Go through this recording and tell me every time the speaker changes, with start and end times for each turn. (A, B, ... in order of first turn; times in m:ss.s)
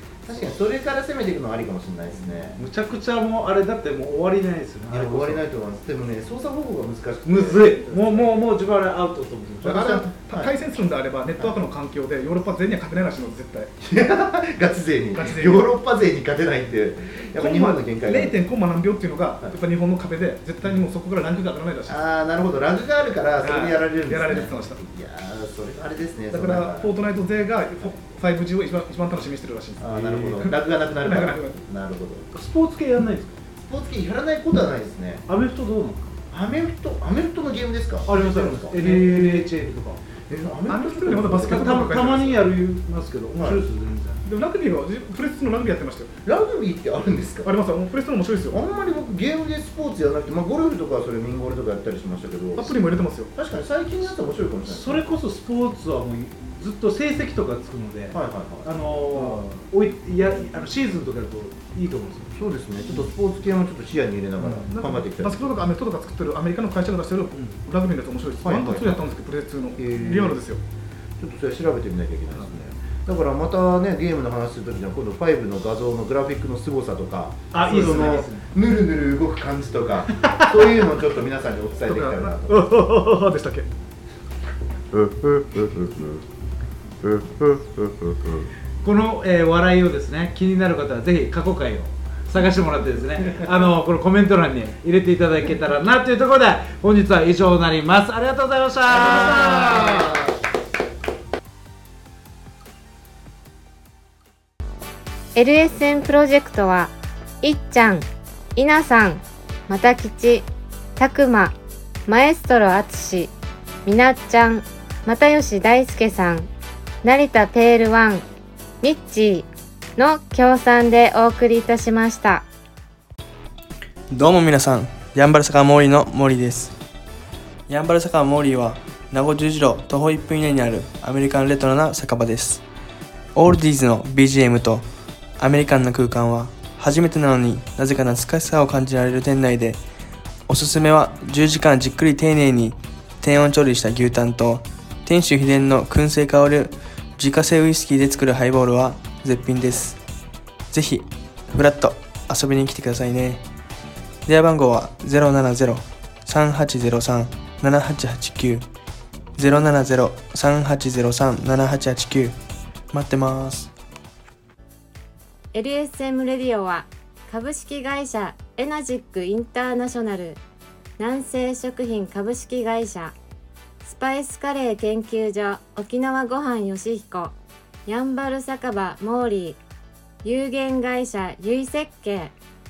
0:00.2-0:02.6 A
0:02.1-0:05.4 B
0:04.9-0:07.9 A
0:07.2-0:09.8 B
0:09.6-0:13.7 C
0:09.7-0:10.5 A
0:13.8-0:18.4 A
0:15.1-0:15.7 C
0:17.4-0:22.0 C
0:21.9-0:26.9 A
0:23.4-0:24.8 C
0:26.3-0:31.6 C
0:29.8-0:32.3 A
0:29.9-0:30.4 B
0:32.3-0:33.4 B
0:33.6-0:35.2 A
0:35.3-0:36.2 B
0:36.3-0:39.5 A
0:38.0-0:40.0 B
0:38.2-0:38.7 C
0:40.3-0:41.9 A
0:40.7-0:42.3 C
0:41.4-0:44.2 B
0:43.4-0:43.6 A
0:44.3-0:46.1 C
0:46.2-0:47.5 A
0:47.5-0:48.6 C
0:48.5-0:55.0 A
0:52.7-0:53.3 C
0:54.6-1:02.3 B
0:58.1-0:58.7 A
1:02.3-1:05.5 A
1:04.6-1:10.6 C
1:08.4-1:09.2 A
1:09.8-1:10.4 A
1:11.2-1:22.7 A
1:17.5-1:18.4 B
1:20.2-1:20.8 B
1:21.9-1:23.7 C
1:24.9-1:26.2 A
1:27.0-1:28.5 A
1:28.8-1:40.2 B
1:38.9-1:40.1 A
1:45.3-1:51.5 D
1:52.1-1:53.3 D
1:53.8-1:56.5 D
1:57.0-1:58.2 D
1:58.8-2:02.4 D
2:04.1-2:06.7 E
2:07.7-2:12.6 E
2:13.3-2:14.8 E
2:15.4-2:19.8 E
2:20.5-2:30.0 E
2:30.7-2:33.4 E
2:34.2-2:38.6 E
2:39.4-2:42.4 E
2:42.9-2:43.7 E
2:45.5-2:50.4 D
2:51.0-2:53.1 D
2:53.8-2:57.3 D
2:57.9-2:59.6 D
3:00.2-3:02.3 D